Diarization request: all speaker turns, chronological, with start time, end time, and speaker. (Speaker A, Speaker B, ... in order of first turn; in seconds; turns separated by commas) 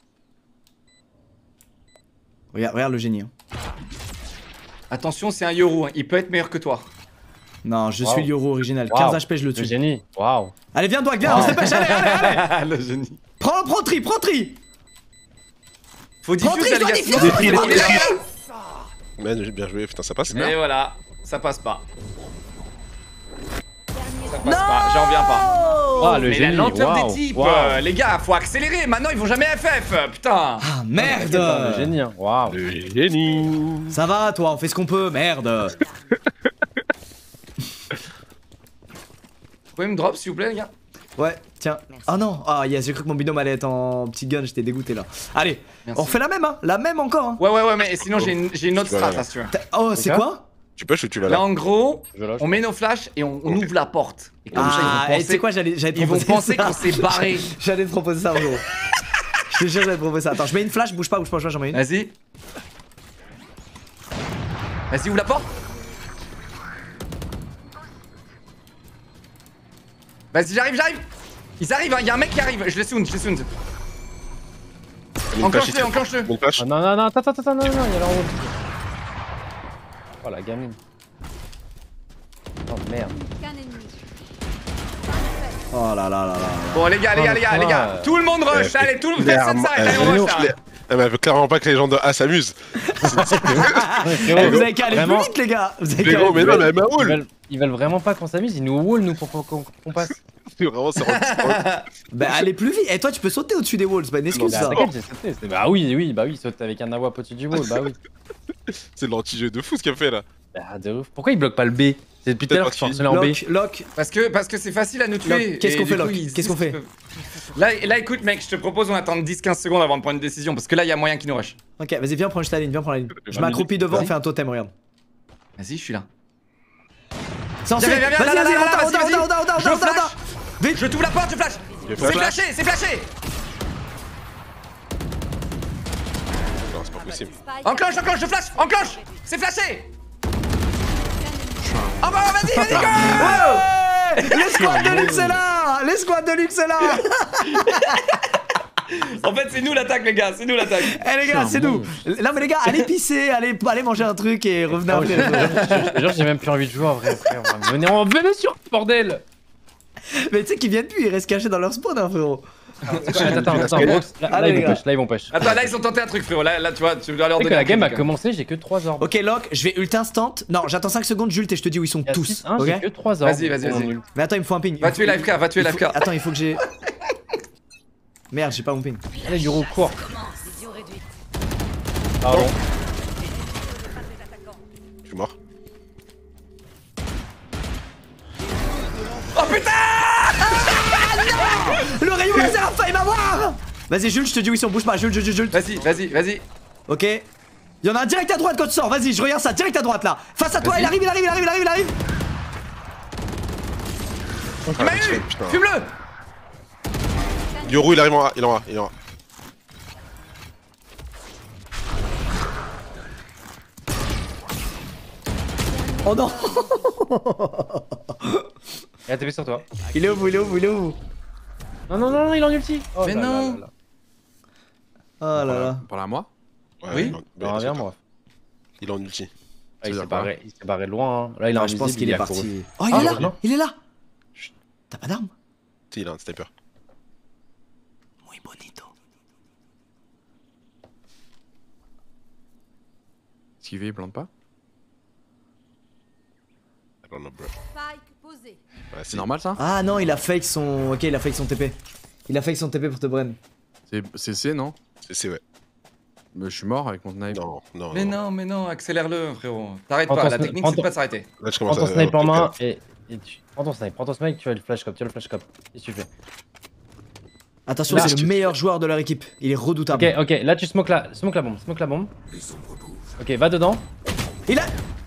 Speaker A: 2.5-3.3, Speaker B: 4.9-6.9, Speaker A: 7.6-9.8, Speaker C: 8.0-8.3, Speaker C: 8.9-10.5, Speaker A: 10.7-12.5, Speaker B: 11.2-13.2, Speaker A: 13.4-14.6, Speaker B: 16.2-18.2, Speaker A: 16.4-18.2, Speaker D: 17.2-18.2, Speaker D: 19.2-20.5, Speaker B: 20.3-21.9, Speaker E: 23.9-26.0, Speaker B: 24.3-25.5, Speaker A: 24.4-26.3, Speaker C: 26.0-27.9, Speaker B: 26.1-31.4, Speaker A: 30.6-31.9, Speaker C: 31.0-32.6, Speaker D: 32.5-34.0, Speaker A: 33.9-35.8, Speaker B: 39.8-40.7, Speaker A: 41.2-47.4, Speaker B: 45.9-46.2, Speaker B: 47.4-49.5, Speaker D: 48.0-49.3, Speaker A: 49.5-50.5, Speaker C: 50.0-50.2, Speaker D: 50.8-51.5, Speaker B: 51.3-57.5, Speaker C: 52.1-52.6, Speaker D: 54.5-55.0, Speaker A: 54.5-58.6, Speaker A: 59.5-61.8, Speaker B: 61.7-62.1, Speaker B: 64.9-65.5, Speaker B: 70.3-71.1, Speaker B: 71.6-73.5, Speaker D: 75.3-76.7, Speaker B: 75.4-76.3, Speaker C: 76.6-78.6, Speaker C: 80.2-80.8, Speaker C: 82.7-83.2, Speaker E: 83.0-84.1, Speaker E: 85.0-85.7, Speaker A: 85.7-87.0, Speaker B: 86.7-90.5, Speaker C: 87.2-88.2, Speaker D: 88.5-94.7, Speaker C: 89.9-90.4, Speaker A: 92.8-96.8, Speaker C: 93.1-95.3, Speaker D: 95.9-97.2, Speaker C: 96.4-100.2, Speaker D: 100.5-101.8, Speaker B: 101.0-101.9, Speaker A: 102.1-104.8, Speaker D: 104.3-104.9, Speaker C: 104.4-108.0, Speaker D: 107.5-107.8, Speaker D: 108.7-110.3, Speaker C: 110.5-113.4, Speaker D: 112.5-113.0, Speaker A: 113.1-113.9, Speaker B: 114.0-116.9, Speaker A: 115.2-116.8, Speaker B: 117.5-121.6, Speaker A: 121.8-124.7, Speaker D: 123.3-123.6, Speaker C: 123.3-124.0, Speaker B: 125.6-126.1, Speaker A: 127.7-131.0, Speaker B: 127.8-130.2, Speaker B: 130.7-133.1, Speaker D: 131.8-132.4, Speaker F: 132.0-132.4, Speaker D: 136.7-137.4, Speaker E: 137.3-138.8, Speaker B: 137.6-139.9, Speaker E: 140.9-142.8, Speaker F: 141.6-143.6, Speaker B: 142.0-143.7, Speaker A: 142.6-148.0, Speaker B: 144.2-144.6, Speaker F: 144.4-145.4, Speaker B: 146.9-148.3, Speaker B: 148.9-151.0, Speaker A: 150.8-155.9, Speaker F: 151.2-151.9, Speaker C: 154.8-159.2, Speaker B: 155.2-156.0, Speaker A: 160.1-162.5, Speaker B: 162.8-164.0, Speaker D: 163.0-164.1, Speaker C: 163.1-165.8, Speaker A: 164.3-164.8, Speaker B: 165.3-168.1, Speaker C: 167.4-169.1, Speaker A: 169.0-172.9, Speaker C: 172.1-174.0, Speaker B: 173.2-174.0, Speaker A: 174.1-176.6, Speaker B: 174.8-176.1, Speaker A: 178.3-179.0, Speaker C: 179.2-180.0, Speaker C: 182.2-182.6, Speaker D: 182.3-182.5, Speaker D: 185.1-185.3, Speaker B: 189.3-191.7, Speaker A: 190.4-195.6, Speaker B: 195.5-196.4, Speaker A: 196.9-197.3, Speaker A: 197.8-201.9, Speaker B: 200.6-201.0, Speaker D: 204.7-205.6, Speaker B: 204.7-205.9, Speaker E: 207.5-208.1, Speaker D: 207.6-208.9, Speaker E: 215.6-217.0, Speaker A: 216.0-218.5, Speaker C: 219.1-219.7, Speaker A: 219.9-221.0, Speaker C: 221.9-223.7, Speaker B: 223.0-223.6, Speaker A: 225.2-225.8, Speaker F: 225.4-226.3, Speaker D: 226.8-227.9, Speaker B: 226.9-227.2, Speaker C: 227.4-228.0, Speaker D: 228.8-229.3, Speaker C: 229.8-233.4, Speaker F: 229.8-230.3, Speaker A: 231.6-233.8, Speaker D: 232.9-233.3, Speaker A: 234.9-235.3, Speaker D: 235.9-236.5, Speaker A: 238.2-238.9, Speaker F: 243.6-244.3, Speaker D: 247.1-247.5, Speaker E: 247.7-248.6, Speaker D: 248.9-249.3, Speaker F: 249.1-249.6, Speaker A: 249.6-253.4, Speaker F: 253.9-254.8, Speaker D: 255.1-255.4, Speaker F: 256.3-257.4, Speaker D: 257.3-258.2, Speaker B: 257.9-261.3, Speaker C: 260.1-260.9, Speaker D: 261.4-262.5, Speaker C: 261.7-266.1, Speaker A: 267.7-270.2, Speaker D: 267.9-268.6, Speaker C: 267.9-268.1, Speaker C: 269.9-272.1, Speaker C: 273.2-273.8, Speaker A: 274.5-274.7